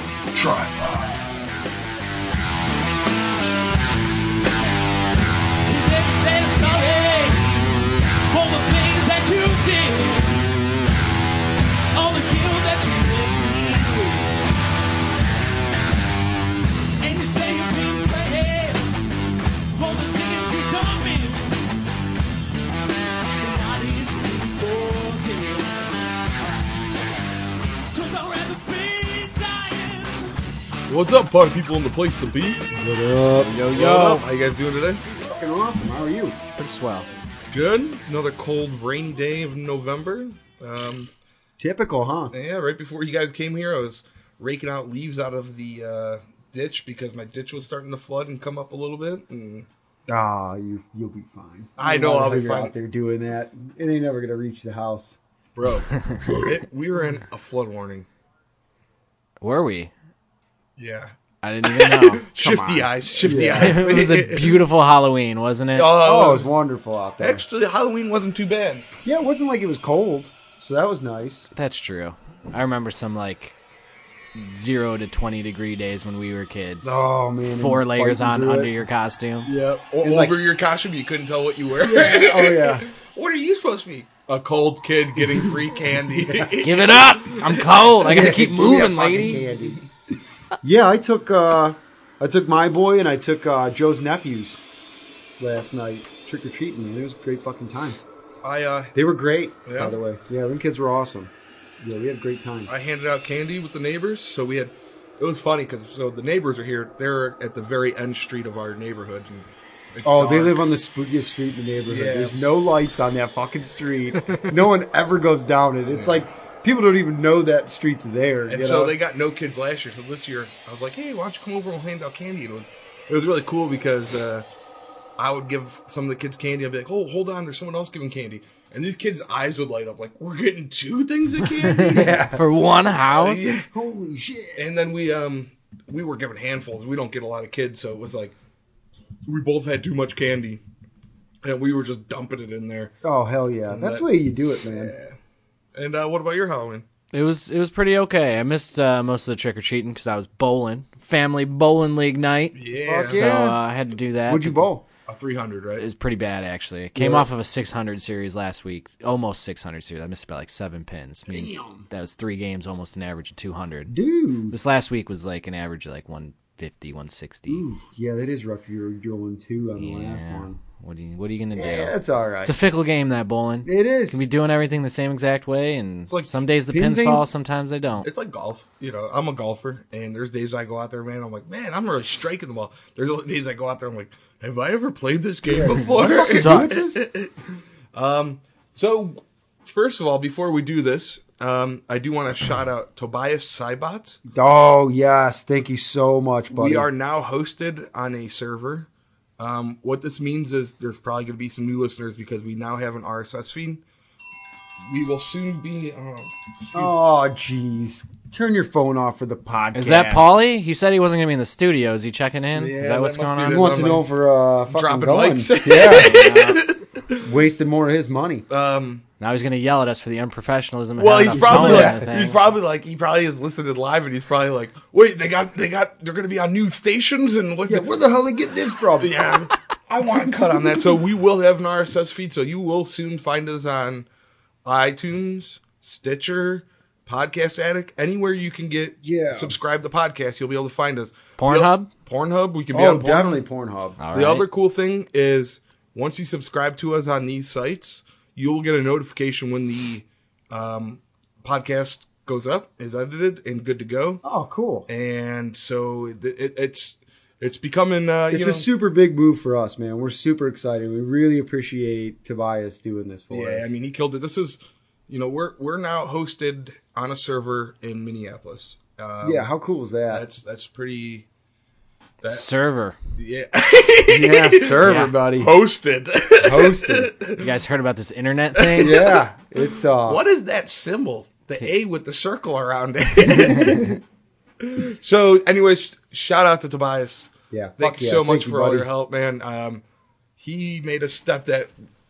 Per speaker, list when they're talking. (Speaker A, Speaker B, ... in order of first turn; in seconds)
Speaker A: 0.3-1.5, 30.9-32.6, 33.7-35.0, 37.5-41.1, 42.3-49.7, 51.8-52.7, 55.5-58.1, 60.8-61.1, 61.6-64.6, 65.7-66.5, 67.2-68.9, 79.5-87.9, 98.4-98.9, 99.7-100.0, 102.7-110.6, 111.9-112.4, 115.9-116.2, 118.5-124.4, 125.2-132.2, 133.0-133.7, 134.5-138.3, 139.2-140.6, 141.4-142.9, 143.7-144.1, 144.6-145.2, 145.7-146.8, 152.5-153.2, 155.1-155.8, 176.1-176.3, 178.0-187.4, 187.9-194.2, 196.5-198.9, 199.4-203.8, 204.8-206.9, 212.5-214.1, 214.7-217.3, 218.5-219.0, 221.0-228.1, 229.0-234.1, 234.6-243.4, 244.1-254.2, 254.9-258.7, 263.3-269.5, 270.1-271.2, 272.2-272.5, 273.2-277.5, 278.6-279.2, 280.1-284.0, 284.6-289.8, 290.4-291.7
Speaker B: 5.7-10.5, 11.9-14.4, 17.0-19.0, 19.7-21.7, 23.3-25.9, 27.9-30.4
Speaker C: 32.7-33.6, 35.1-36.4, 41.6-42.3, 50.1-55.2, 62.4-63.9, 66.0-67.4, 69.0-71.5, 76.8-78.7, 80.0-80.4, 81.8-82.8, 88.0-89.8, 90.6-94.6, 95.4-98.0, 98.9-102.7, 110.0-119.0, 131.7-132.4, 133.7-134.6, 143.0-144.9, 152.9-153.6, 154.3-154.8, 156.9-157.3, 161.3-161.8, 163.9-164.5, 167.5-170.6, 171.5-172.5, 173.6-174.3, 176.7-177.2, 185.4-187.1, 194.3-196.9, 206.7-210.3, 213.5-216.2, 217.2-218.4, 221.3-222.0, 227.7-229.1, 230.5-231.0, 239.0-239.6, 242.7-244.0, 254.2-254.9, 258.3-263.7, 269.2-270.2, 274.1-275.5, 276.4-277.1, 278.8-280.2, 287.5-288.9
Speaker D: 33.4-34.2, 36.5-37.1, 59.4-59.9, 61.4-62.3, 63.3-65.9, 71.5-73.5, 74.3-77.0, 77.6-79.5, 86.6-89.4, 131.7-133.5, 147.1-154.7, 155.8-163.9, 164.5-167.6, 169.8-178.1, 186.1-186.8, 209.7-213.6, 215.9-216.6, 219.2-222.4, 241.4-241.9, 244.0-244.4, 272.3-272.9, 274.8-275.1, 277.4-279.0, 283.4-283.9